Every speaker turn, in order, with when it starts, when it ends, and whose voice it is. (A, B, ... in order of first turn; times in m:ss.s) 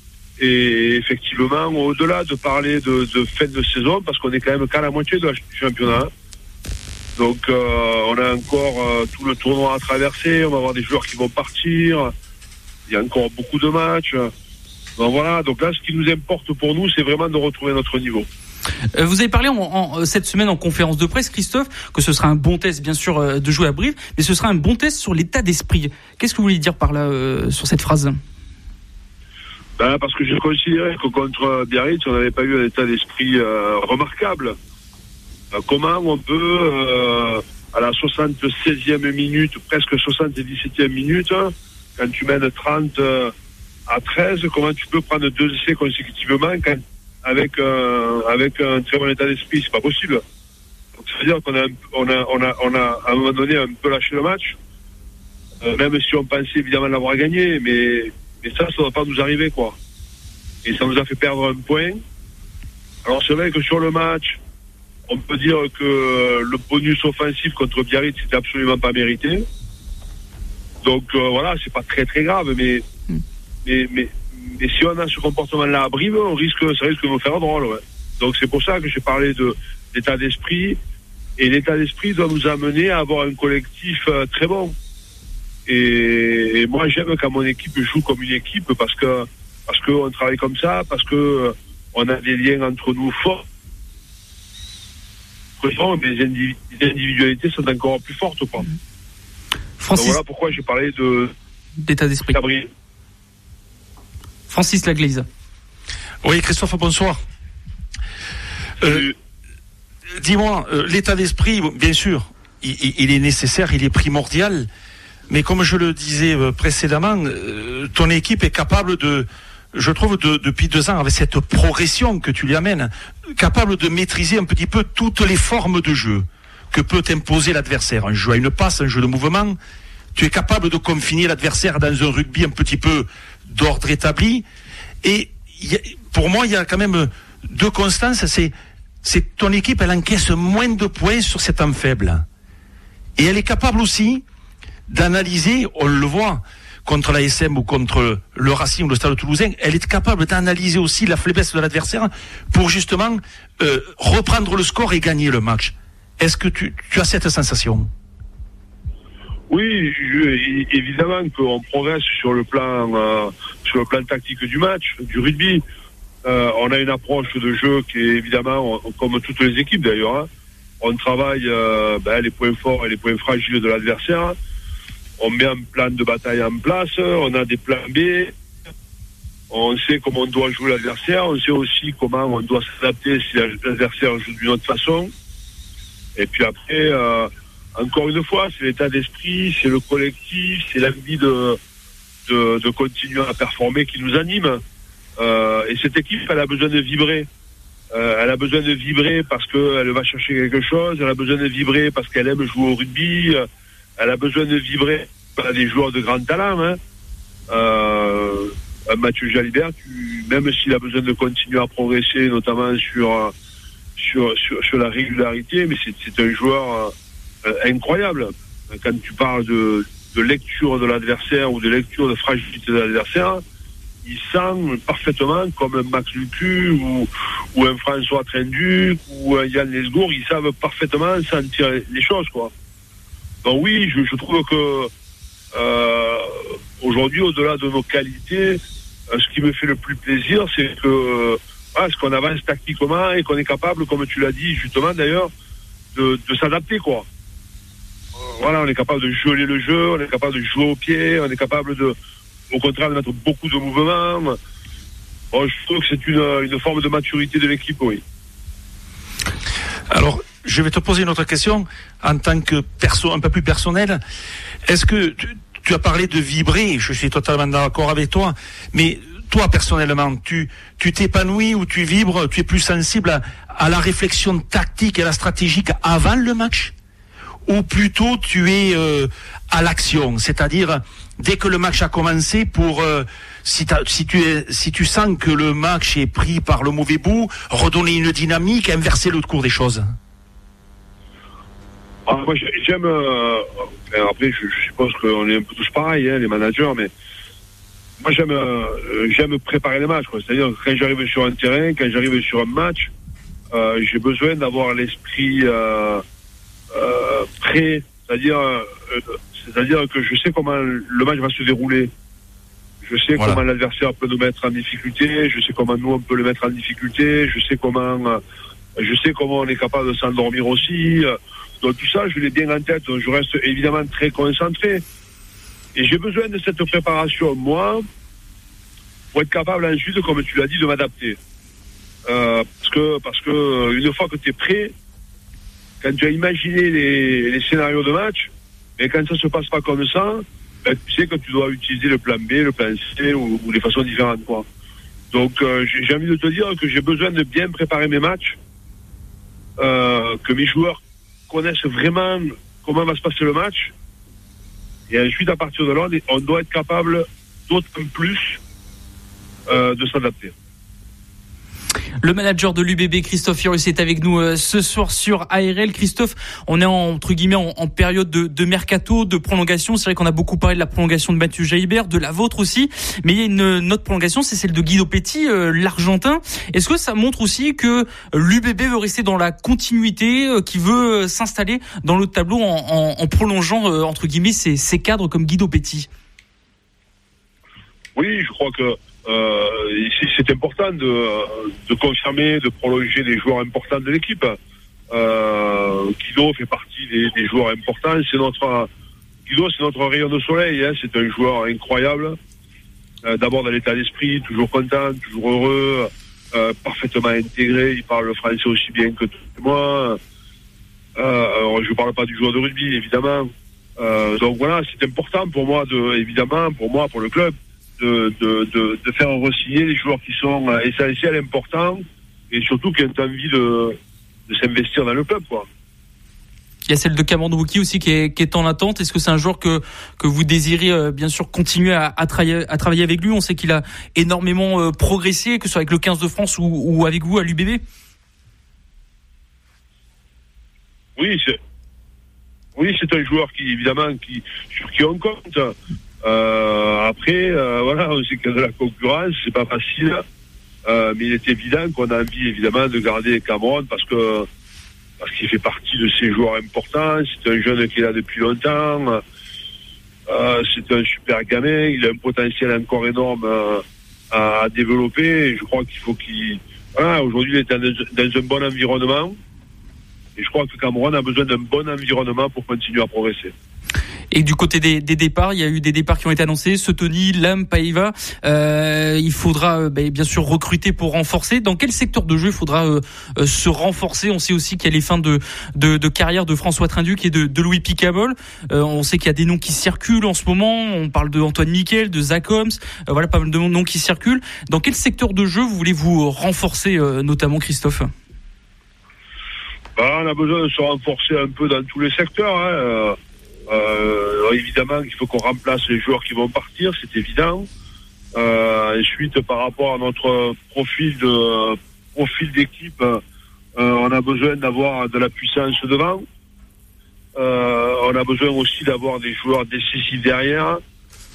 0:00.4-0:06.1 A
0:07.2-0:12.1 A
0:12.9-0:14.3 A
0:15.0-0:18.3 A
0:18.9-0:28.2 B
0:29.8-0:34.5 A
0:35.5-0:43.3 A
0:43.9-0:50.2 A
0:51.0-0:54.6 A
0:55.6-0:59.8 A
1:00.6-1:02.0 A
1:03.0-1:04.4 A
1:05.1-1:09.4 A
1:10.8-1:12.8 A
1:13.6-1:20.8 A
1:21.4-1:24.7 A
1:25.7-1:33.4 A
1:35.6-1:38.7 A
1:39.8-1:40.2 B
1:39.9-1:41.3 A
1:41.8-1:42.4 B
1:42.3-1:42.7 A
1:44.5-1:45.3 B
1:46.2-1:47.2 C
1:48.8-1:49.1 C
1:48.8-1:49.1 A
1:50.2-1:54.7 C
1:55.3-2:09.6 C
2:10.1-2:14.4 C
2:15.0-2:22.2 C
2:23.2-2:24.2 C
2:24.9-2:37.9 C
2:39.5-2:45.6 A
2:46.2-2:50.3 A
2:50.8-2:54.4 A
2:55.2-2:58.3 A
2:59.5-3:05.1 A
3:06.2-3:11.6 A
3:12.3-3:14.6 A
3:15.2-3:17.3 A
3:17.9-3:23.4 A
3:24.0-3:26.8 A
3:27.5-3:33.3 A
3:34.0-3:43.4 A
3:44.0-3:52.5 A
3:53.4-3:54.9 A
3:55.5-4:05.3 A
4:05.9-4:07.1 A
4:08.2-4:12.0 A
4:12.5-4:14.4 A
4:15.3-4:18.0 A
4:19.9-4:24.0 C
4:24.7-4:36.7 C
4:37.5-4:49.9 C
4:52.1-4:56.9 A
4:58.0-5:02.9 A
5:03.5-5:06.0 A
5:06.7-5:11.9 A
5:12.8-5:18.2 A
5:18.8-5:24.8 A
5:25.7-5:27.8 A
5:29.1-5:31.2 A
5:32.1-5:34.7 A
5:35.8-5:44.4 A
5:45.1-5:48.4 A
5:49.6-5:53.7 A
5:54.9-5:58.4 A
5:59.5-6:00.3 A
6:02.0-6:25.9 B
6:28.0-6:34.4 A
6:34.9-6:38.7 A
6:39.3-6:42.2 A
6:43.0-6:50.0 A
6:51.0-7:03.8 A
7:04.3-7:05.5 A
7:06.7-7:17.6 B
7:21.0-7:21.4 A
7:22.6-7:30.0 A
7:30.6-7:34.3 A
7:35.0-7:39.0 A
7:40.1-7:49.2 A
7:50.2-7:53.3 A
7:54.1-8:17.9 B
8:19.8-8:23.0 A
8:23.5-8:27.4 A
8:28.1-8:33.0 A
8:33.6-8:36.0 A
8:37.2-8:40.6 A